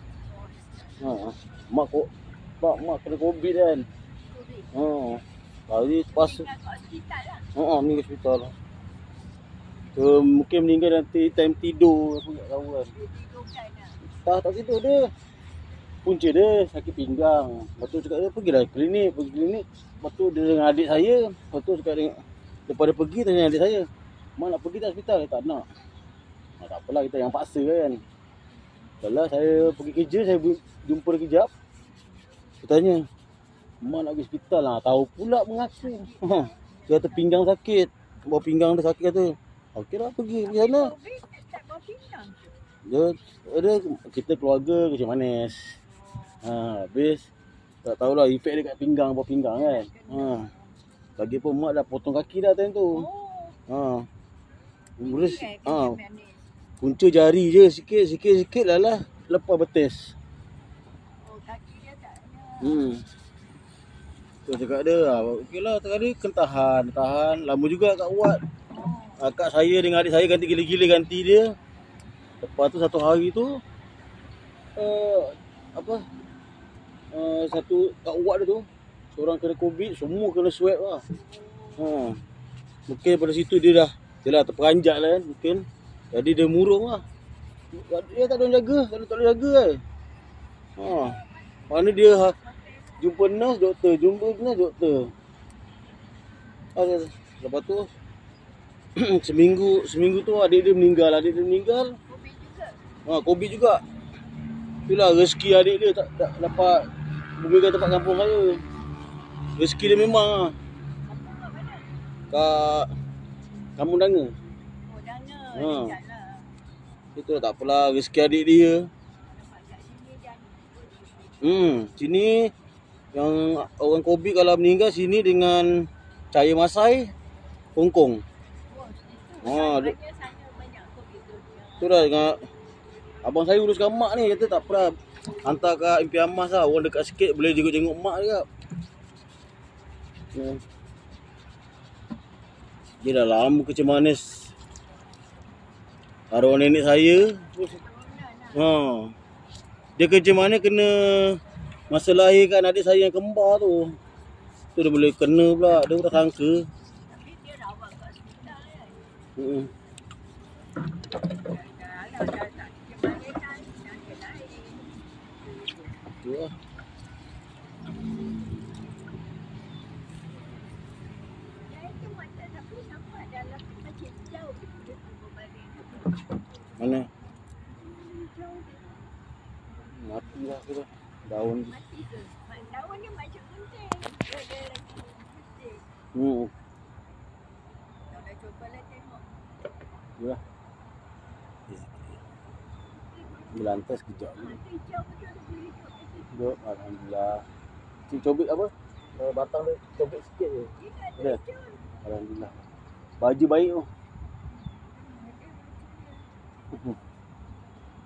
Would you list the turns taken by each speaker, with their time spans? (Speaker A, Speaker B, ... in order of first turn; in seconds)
Speaker A: 0.2-1.1, 4.1-4.7, 6.1-7.5, 12.9-14.0, 35.8-37.4, 40.4-42.5, 45.9-46.5, 49.5-50.8, 52.9-53.6, 55.0-56.5, 61.2-62.9, 68.7-69.3, 81.1-82.0, 90.8-93.5, 102.1-102.8, 111.0-111.9, 114.9-116.5, 119.2-121.6, 128.7-132.1, 147.7-148.7, 157.1-159.1, 161.2-165.0, 171.7-176.4, 177.6-179.1, 181.7-185.9, 188.1-189.5, 193.1-193.8, 194.3-196.3, 200.8-202.0, 204.5-206.3
Speaker B: 1.0-3.9, 4.7-6.5, 7.6-8.6, 9.9-12.9, 14.2-15.1, 16.1-25.7, 26.6-28.0, 29.0-31.5, 32.6-33.1, 33.8-40.9, 42.9-45.8, 46.4-47.3, 47.8-50.5, 51.2-53.1, 53.7-54.1, 55.0-56.0, 56.8-60.1, 62.6-63.1, 64.5-68.5, 69.2-71.6, 72.4-73.6, 74.8-76.1, 77.1-81.0, 81.8-82.2, 82.9-87.0, 87.7-89.8, 90.8-91.2, 91.7-92.4, 93.0-95.1, 96.8-97.9, 99.0-102.0, 103.1-103.8, 104.9-108.7, 109.6-110.6, 112.3-112.9, 113.8-114.3, 115.5-116.0, 117.2-118.9, 121.4-122.5, 123.1-127.1, 127.8-128.2, 129.4-130.0, 131.8-132.5, 133.2-138.5, 140.3-140.6, 143.0-144.5, 146.3-147.8, 148.6-149.1, 150.0-154.0, 154.8-156.7, 159.4-159.7, 166.2-166.6, 176.8-177.1, 179.9-181.7, 186.1-186.5, 191.7-192.2, 193.5-194.6, 196.3-197.5, 198.1-201.4, 202.0-202.6, 203.2-203.9, 206.7-207.0